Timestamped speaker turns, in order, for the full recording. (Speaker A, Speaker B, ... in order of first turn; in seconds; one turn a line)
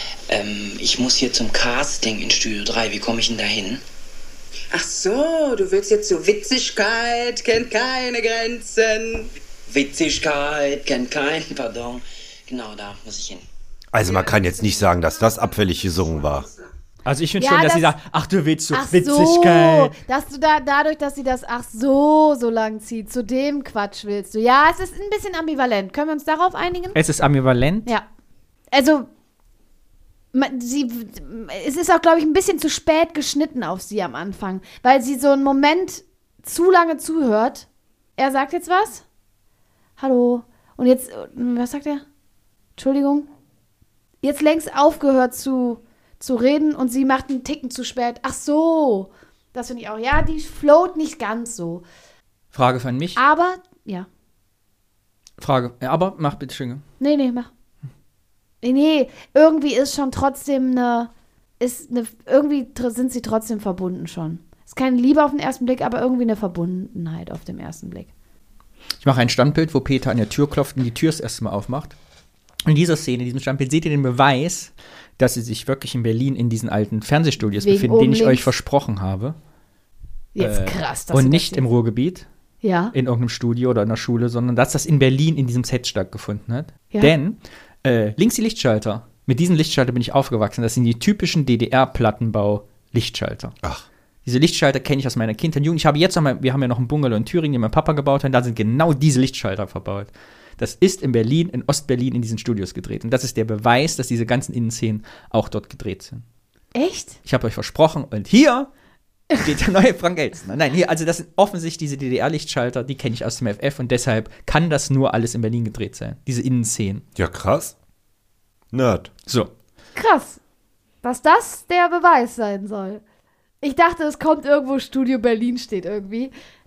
Speaker A: 0.3-3.8
Speaker B: 4.7-9.3
Speaker A: 9.7-13.4
Speaker C: 13.9-16.5
Speaker D: 17.0-19.9
Speaker E: 17.4-17.9
Speaker E: 18.7-27.0
Speaker D: 26.9-27.9
Speaker E: 28.7-29.1
Speaker E: 30.3-39.0
Speaker E: 40.0-42.0
Speaker E: 42.8-43.3
Speaker E: 44.2-51.8
Speaker D: 52.5-53.2
Speaker E: 53.1-54.1
Speaker D: 55.4-56.8
Speaker E: 57.0-57.5
Speaker E: 58.6-68.1
Speaker D: 69.0-71.9
Speaker D: 72.7-79.3
Speaker E: 77.6-78.5
Speaker E: 80.3-81.6
Speaker D: 80.4-82.2
Speaker E: 82.6-82.9
Speaker D: 82.9-93.5
Speaker D: 94.2-106.2
Speaker E: 106.7-107.2
Speaker D: 107.2-108.7
Speaker D: 109.3-117.0
Speaker C: 117.2-117.7
Speaker C: 118.7-119.1
Speaker E: 120.0-120.4
Speaker E: 121.0-123.0
Speaker E: 123.6-126.3